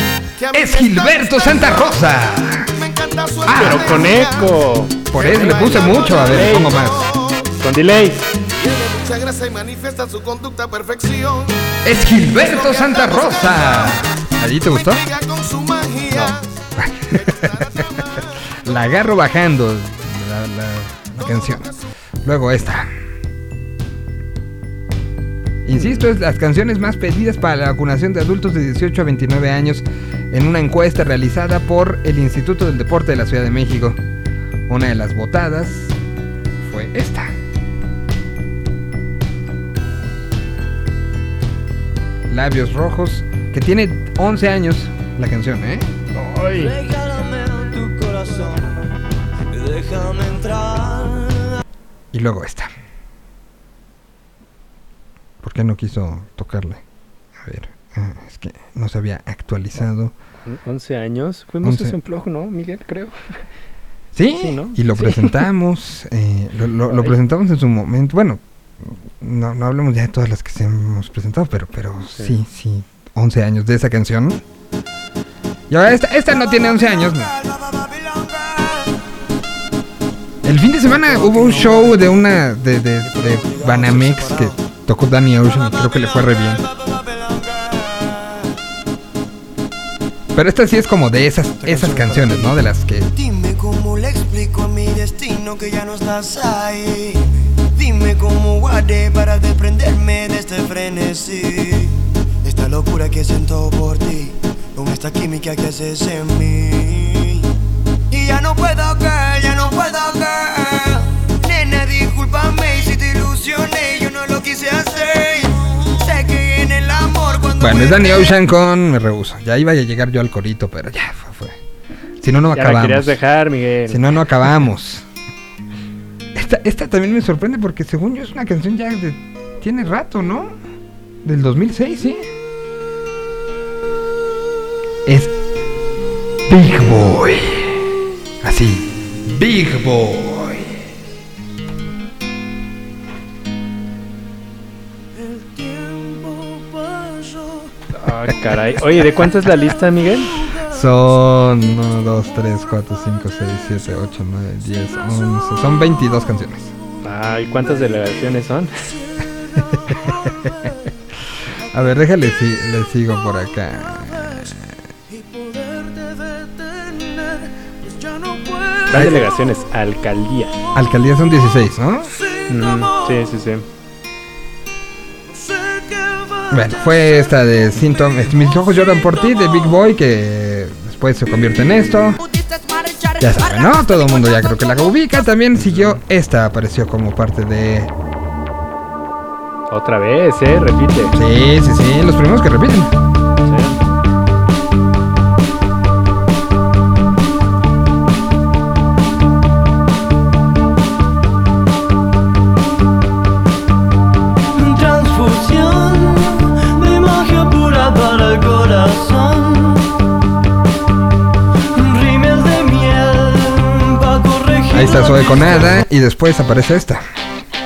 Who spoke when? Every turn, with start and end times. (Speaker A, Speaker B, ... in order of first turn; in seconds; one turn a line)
Speaker A: 0.4-7.5
Speaker B: 0.5-2.7
Speaker B: 3.5-4.1
Speaker C: 3.5-6.7
Speaker B: 5.1-7.1
Speaker C: 7.6-8.2
Speaker A: 8.5-11.6
Speaker B: 11.8-15.0
Speaker A: 12.2-14.1
Speaker A: 14.7-19.0
Speaker B: 16.8-17.4
Speaker B: 18.6-21.7
Speaker B: 22.2-22.9
Speaker B: 25.6-34.0
Speaker C: 25.7-26.1
Speaker B: 34.7-36.0
Speaker B: 36.6-37.3
Speaker B: 42.3-45.9
Speaker C: 46.1-46.8
Speaker D: 46.5-48.8
Speaker D: 49.5-51.3
Speaker B: 52.1-52.7
Speaker B: 55.4-56.8
Speaker B: 57.4-60.1
Speaker C: 60.5-63.2
Speaker B: 61.6-62.0
Speaker B: 64.2-74.4
Speaker C: 64.4-65.4
Speaker C: 66.9-67.2
Speaker B: 75.7-77.3
Speaker E: 76.6-79.0
Speaker B: 80.4-86.6
Speaker E: 81.1-81.9
Speaker E: 83.1-84.6
Speaker E: 85.4-88.5
Speaker B: 90.3-93.1
Speaker E: 91.7-92.4
Speaker E: 93.2-101.9
Speaker E: 102.4-107.4
Speaker E: 108.1-118.3
Speaker B: 117.6-121.6
Speaker B: 122.2-123.2
Speaker C: 122.5-124.2
Speaker B: 123.9-125.0
Speaker B: 126.3-130.5
Speaker B: 131.2-132.2
Speaker B: 135.1-135.3
Speaker B: 136.5-137.7
Speaker B: 138.4-140.7
Speaker E: 145.8-146.1
Speaker C: 148.0-150.3
Speaker B: 150.7-156.7
Speaker C: 157.0-158.9
Speaker B: 159.7-160.3
Speaker B: 161.7-164.7
Speaker E: 165.5-165.8
Speaker E: 168.2-168.7
Speaker C: 168.9-170.6
Speaker B: 168.9-169.3
Speaker B: 170.7-172.2
Speaker C: 172.5-173.7
Speaker B: 176.5-182.2
Speaker B: 183.2-187.9
Speaker C: 185.5-186.0
Speaker C: 189.7-191.2
Speaker B: 191.1-192.9
Speaker C: 193.4-193.8
Speaker D: 204.6-209.8
Speaker D: 211.8-215.8
Speaker B: 214.7-217.0